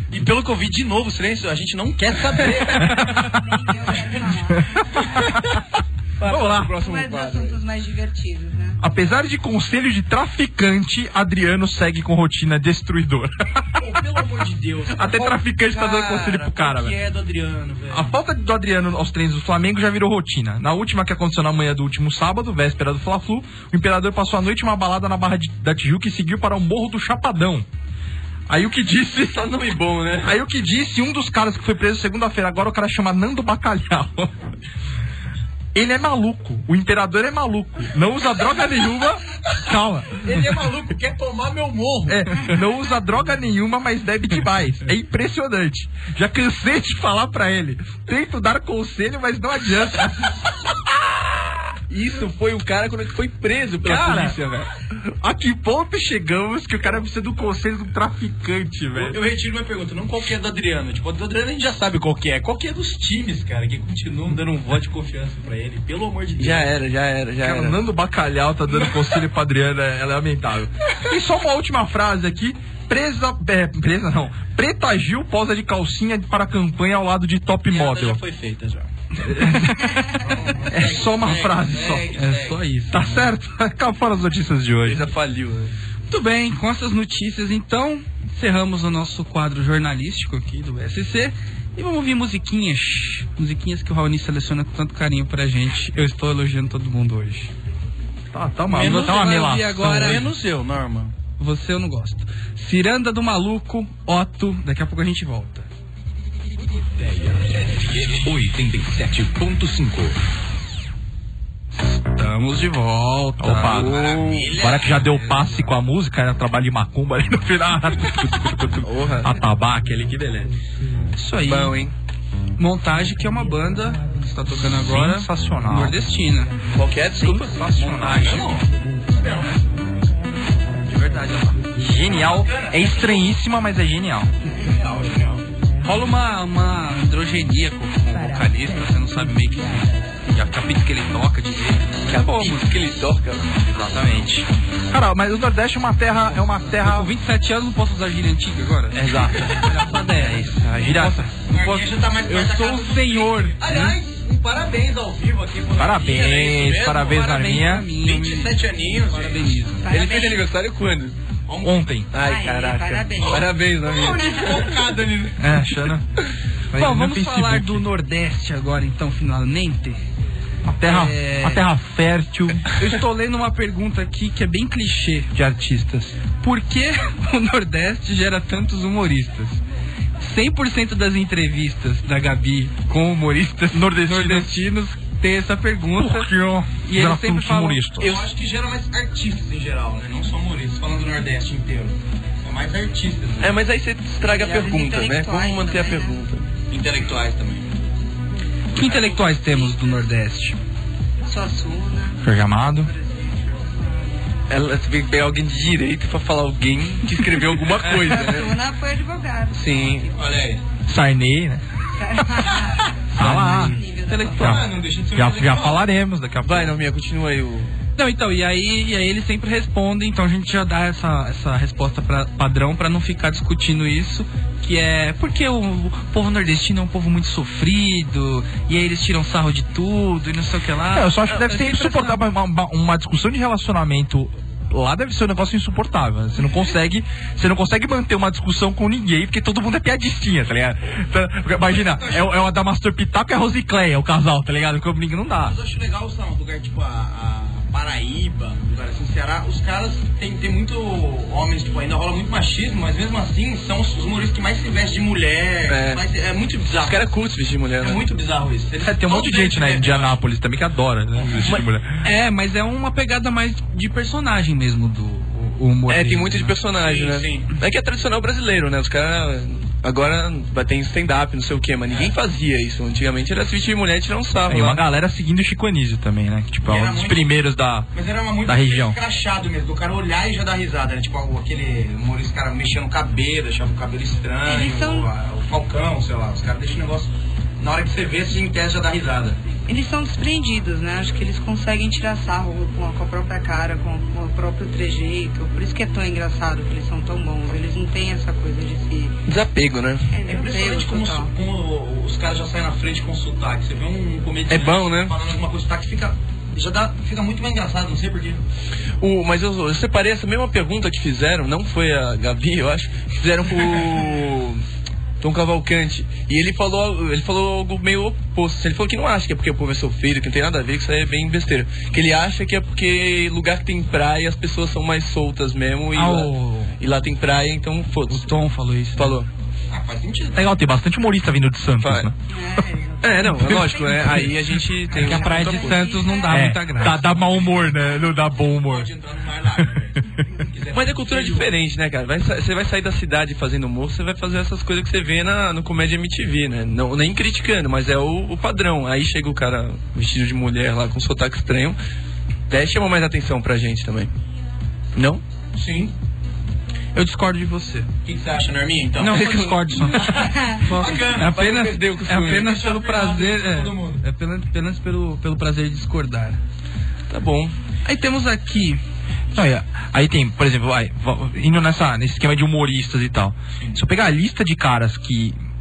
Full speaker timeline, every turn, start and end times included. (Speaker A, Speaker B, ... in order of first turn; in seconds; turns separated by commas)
Speaker A: 0.1-3.4, Speaker B: 2.7-3.3, Speaker C: 2.9-5.2, Speaker A: 3.9-4.3, Speaker B: 4.6-5.5, Speaker D: 6.2-7.6, Speaker B: 6.2-6.8, Speaker C: 6.8-8.8, Speaker B: 8.8-13.8, Speaker A: 13.8-18.1, Speaker B: 14.9-17.0, Speaker B: 17.9-27.7, Speaker B: 28.5-29.5, Speaker D: 29.3-30.3, Speaker B: 30.2-34.4, Speaker B: 35.8-40.2, Speaker A: 40.1-42.4, Speaker B: 42.1-51.2, Speaker D: 51.9-54.7, Speaker B: 53.8-54.4, Speaker B: 55.2-59.2, Speaker A: 58.9-66.7, Speaker D: 66.4-67.8, Speaker B: 67.4-78.2, Speaker A: 77.7-78.9, Speaker B: 79.2-82.1, Speaker A: 80.2-82.6, Speaker E: 82.1-83.0, Speaker B: 82.9-85.0, Speaker D: 84.8-85.7, Speaker E: 86.1-97.5, Speaker B: 98.3-100.3, Speaker E: 98.7-100.3, Speaker A: 98.7-99.3, Speaker A: 99.8-101.2, Speaker E: 101.4-105.7, Speaker F: 107.0-110.2, Speaker E: 111.7-114.0, Speaker B: 113.4-120.5, Speaker D: 113.7-114.5, Speaker A: 113.8-115.2, Speaker E: 114.8-115.4, Speaker D: 118.8-119.3, Speaker E: 121.2-121.8, Speaker D: 121.4-121.9, Speaker E: 122.6-126.6, Speaker B: 124.7-126.0, Speaker D: 126.7-127.5, Speaker B: 127.2-128.6, Speaker E: 127.5-128.6, Speaker A: 128.1-129.7, Speaker E: 130.8-131.7, Speaker B: 131.8-134.3, Speaker A: 132.1-133.3, Speaker A: 134.5-135.4, Speaker E: 135.8-142.7, Speaker D: 142.1-143.6, Speaker B: 143.7-147.1, Speaker E: 146.7-154.0, Speaker B: 148.9-151.3, Speaker A: 151.5-157.0, Speaker B: 155.8-157.9, Speaker E: 156.6-159.9, Speaker A: 158.0-159.6, Speaker C: 159.8-160.5, Speaker D: 159.9-161.2, Speaker A: 161.5-161.9, Speaker B: 161.6-162.1, Speaker D: 162.1-164.5, Speaker C: 162.2-164.7, Speaker A: 163.3-165.5, Speaker B: 165.4-166.1, Speaker B: 166.7-167.8, Speaker E: 166.7-170.0, Speaker B: 170.7-172.7, Speaker E: 170.8-171.7, Speaker E: 172.7-175.3, Speaker B: 175.3-176.2, Speaker E: 176.3-179.6, Speaker E: 180.2-186.3, Speaker B: 183.7-184.5, Speaker B: 186.0-188.2, Speaker E: 186.8-188.0, Speaker A: 188.0-193.6, Speaker D: 193.4-196.5, Speaker C: 194.2-196.2, Speaker A: 196.7-197.8, Speaker E: 198.7-200.6, Speaker C: 198.8-200.0, Speaker C: 201.3-202.3, Speaker B: 202.2-202.9, Speaker C: 202.8-204.1, Speaker D: 204.5-208.6, Speaker C: 208.0-210.2, Speaker D: 209.5-210.1, Speaker A: 210.1-210.6, Speaker B: 210.9-211.6, Speaker C: 212.0-214.6, Speaker B: 213.1-213.8, Speaker E: 213.2-214.6, Speaker A: 214.4-215.8, Speaker B: 214.4-216.8, Speaker D: 216.4-217.8, Speaker E: 218.0-232.2, Speaker B: 230.9-245.6, Speaker A: 241.6-242.3, Speaker A: 245.4-257.1, Speaker D: 255.7-256.0, Speaker D: 256.8-258.1, Speaker A: 257.8-260.2, Speaker B: 258.8-262.0, Speaker E: 262.0-266.6, Speaker D: 265.9-274.8, Speaker A: 266.7-267.5, Speaker B: 274.5-277.9, Speaker A: 276.7-277.3, Speaker A: 277.9-289.4, Speaker B: 278.4-279.0, Speaker C: 284.4-285.1, Speaker C: 289.7-299.2, Speaker D: 299.3-300.1, Speaker C: 300.1-301.3, Speaker A: 300.2-308.4, Speaker D: 304.5-305.1, Speaker D: 309.0-314.6, Speaker D: 315.2-328.3, Speaker E: 325.9-326.8, Speaker E: 328.1-329.2, Speaker D: 328.9-329.3, Speaker A: 329.7-330.5, Speaker B: 330.3-332.1, Speaker D: 331.8-332.1, Speaker C: 332.3-336.7, Speaker D: 333.0-335.9, Speaker B: 333.4-333.9, Speaker E: 334.9-337.0, Speaker B: 336.3-338.9, Speaker A: 336.9-341.5, Speaker D: 340.7-351.8, Speaker D: 352.5-354.1, Speaker D: 354.9-355.2, Speaker A: 355.5-355.9, Speaker E: 356.9-357.9, Speaker A: 358.1-359.4, Speaker E: 359.0-366.4, Speaker B: 359.0-360.1, Speaker D: 359.1-359.7, Speaker A: 359.9-361.4, Speaker C: 360.2-360.6, Speaker D: 361.2-362.5, Speaker A: 362.3-364.0, Speaker D: 367.1-367.6, Speaker E: 367.9-368.8, Speaker B: 369.3-375.4, Speaker A: 373.6-373.8